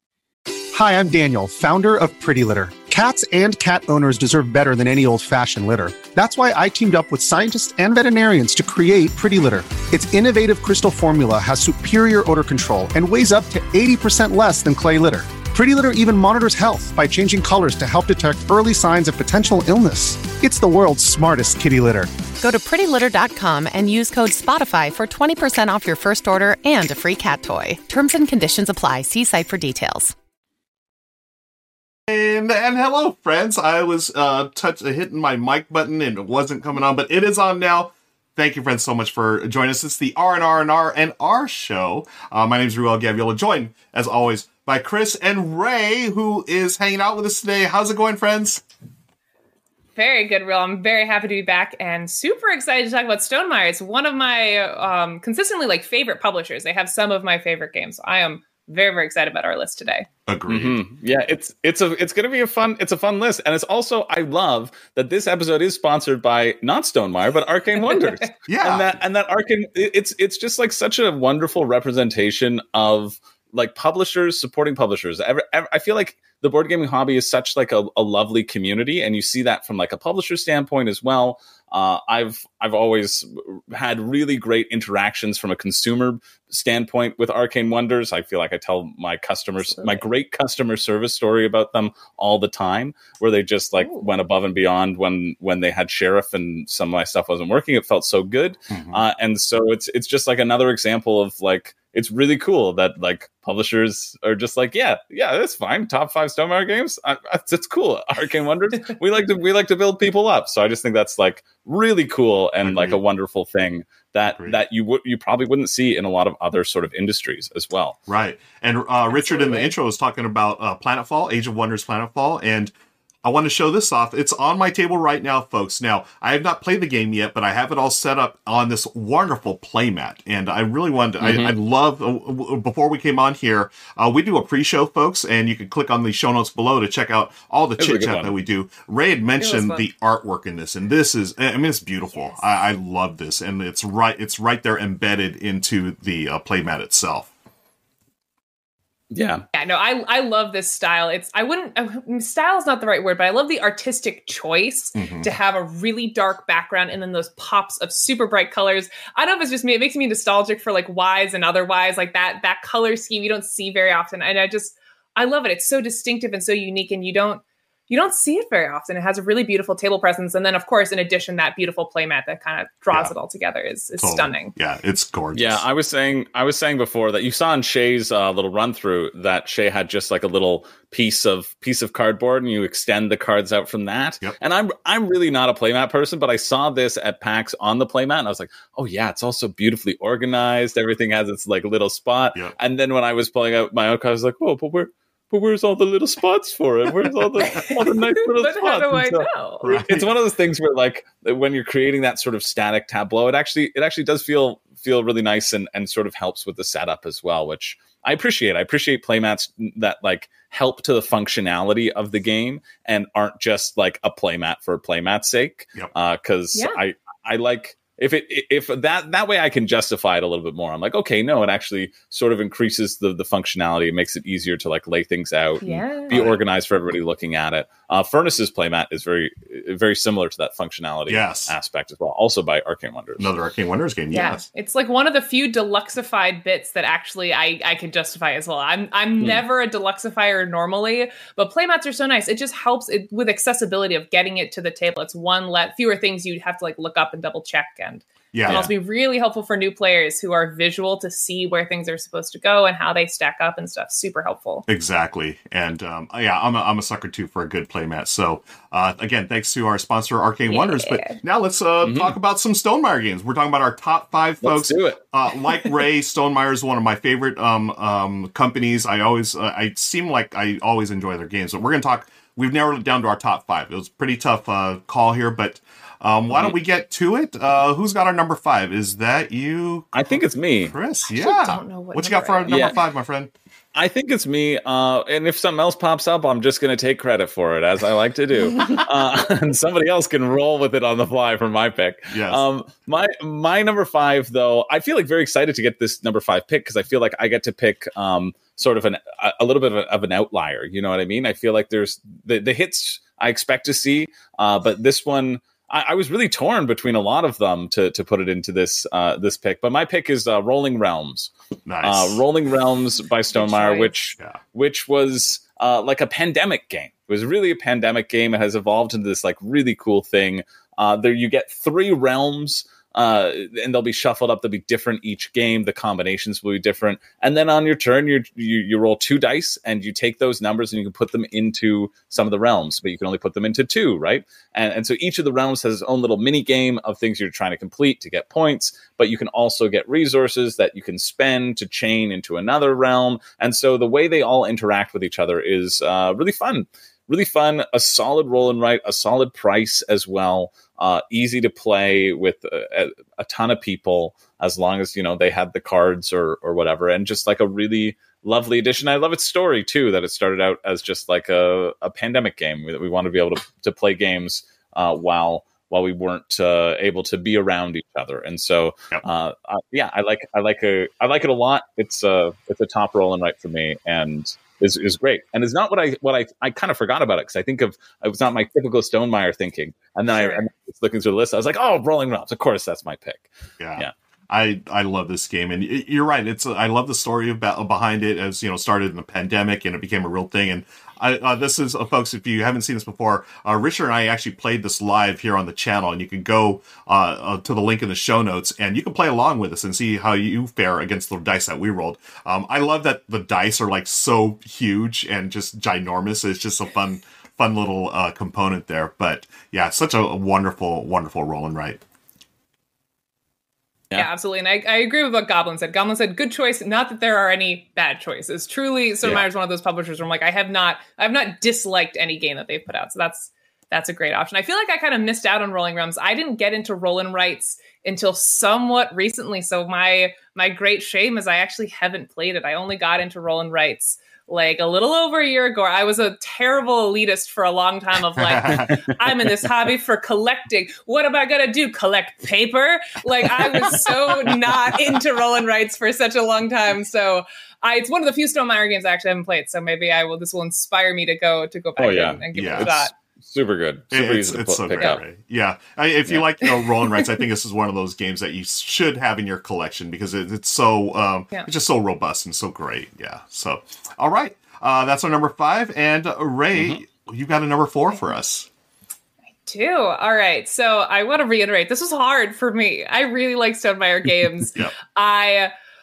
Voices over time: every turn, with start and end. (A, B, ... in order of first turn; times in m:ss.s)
0:00.7-0:22.1 A
0:22.4-0:30.1 B
0:32.1-0:48.6 C
0:50.0-1:00.1 D
1:00.3-1:00.8 C
1:00.5-1:58.0 E
1:07.8-1:08.3 D
1:08.5-1:08.9 C
1:29.6-1:30.0 D
1:33.8-1:34.0 D
1:38.7-1:39.0 C
1:52.6-1:53.0 C
1:54.3-1:54.6 C
1:58.1-2:02.7 C
1:59.1-1:59.7 D
2:03.2-2:27.3 C
2:11.2-2:11.5 E
2:17.8-2:18.3 E
2:19.4-2:19.8 D
2:29.1-2:29.4 E
2:29.5-2:54.5 D
2:35.0-2:35.2 C
2:54.0-2:55.6 C
2:55.3-3:53.3 E
3:17.5-3:17.8 D
3:18.4-3:19.7 D
3:19.6-3:20.1 C
3:45.6-3:46.2 D
3:45.7-3:46.4 C
3:51.1-3:51.5 C
3:53.2-3:54.4 C
3:54.1-4:14.6 D
4:08.3-4:08.7 C
4:14.7-4:43.3 C
4:20.5-4:21.2 D
4:21.8-4:22.1 E
4:24.4-4:25.0 E
4:39.9-4:40.8 E
4:41.1-4:42.8 D
4:42.5-4:42.8 E
4:43.7-6:23.9 E
4:52.1-4:52.4 C
5:11.6-5:12.2 C
5:13.3-5:13.9 D
6:20.1-6:20.4 D
6:23.6-6:51.8 C
6:53.9-7:32.9 D
7:18.2-7:18.6 C
7:23.5-7:24.3 E
7:31.8-7:32.7 E
7:32.3-7:32.9 C
7:33.2-7:35.0 E
7:33.9-7:48.5 C
7:49.4-7:55.5 D